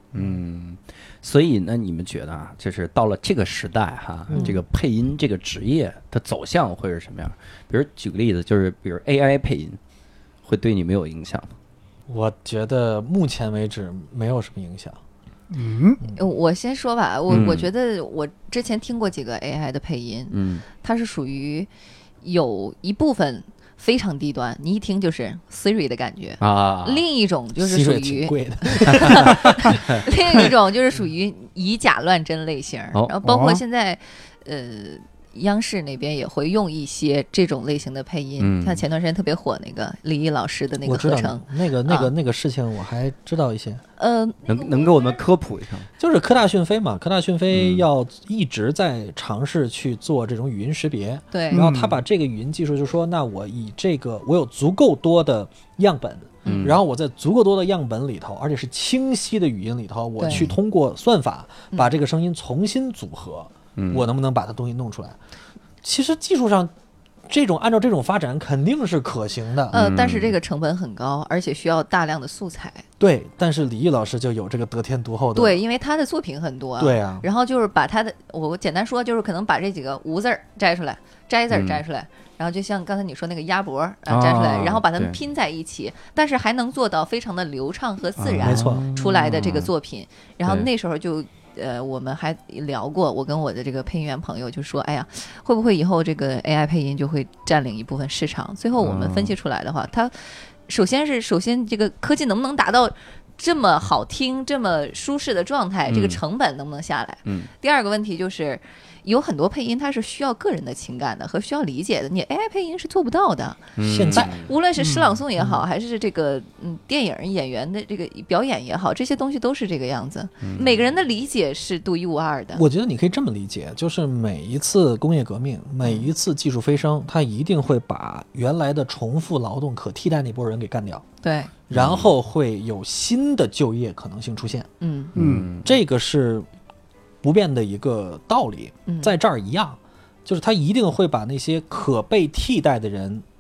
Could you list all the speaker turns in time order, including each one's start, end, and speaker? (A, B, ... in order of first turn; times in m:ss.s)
0:00.1-0:09.8 A
0:04.3-0:04.6 B
0:04.3-0:04.6 C
0:10.4-0:11.5 A
0:12.1-0:15.0 B
0:15.5-0:16.0 D
0:16.2-0:21.7 C
0:17.3-0:17.7 A
0:20.3-0:20.6 A
0:22.2-0:42.1 C
0:26.4-0:27.0 A
0:27.6-0:30.5 B
0:33.2-0:33.6 D
0:38.4-0:38.8 A
0:40.8-0:43.8 B
0:44.0-0:45.2 C
0:44.5-0:45.9 A
0:46.0-1:05.2 B
0:47.5-0:47.8 A
0:51.3-0:51.7 C
0:51.5-0:52.0 D
0:56.4-0:56.7 C
0:56.4-0:56.8 A
1:00.2-1:00.5 C
1:03.8-1:04.1 A
1:05.8-1:06.7 B
1:07.3-1:09.8 B
1:09.7-1:12.8 C
1:09.7-1:10.4 A
1:13.0-1:15.6 B
1:15.4-2:02.6 C
1:16.8-1:17.3 B
1:21.5-1:21.8 A
1:24.1-1:25.2 A
1:28.2-1:29.7 A
1:28.4-1:28.9 B
1:38.8-1:39.4 A
1:45.9-1:46.2 A
1:47.2-1:47.5 A
1:53.8-1:54.5 A
1:53.8-1:54.4 B
1:54.8-1:55.1 D
1:55.4-1:55.6 B
2:00.4-2:00.8 A
2:02.5-2:11.0 B
2:05.8-2:06.1 C
2:11.2-2:11.5 C
2:11.7-2:14.7 B
2:11.7-2:12.1 A
2:14.8-2:15.1 C
2:15.2-2:15.8 A
2:15.2-2:15.5 D
2:15.6-2:16.5 B
2:17.2-2:23.2 B
2:18.9-2:19.1 C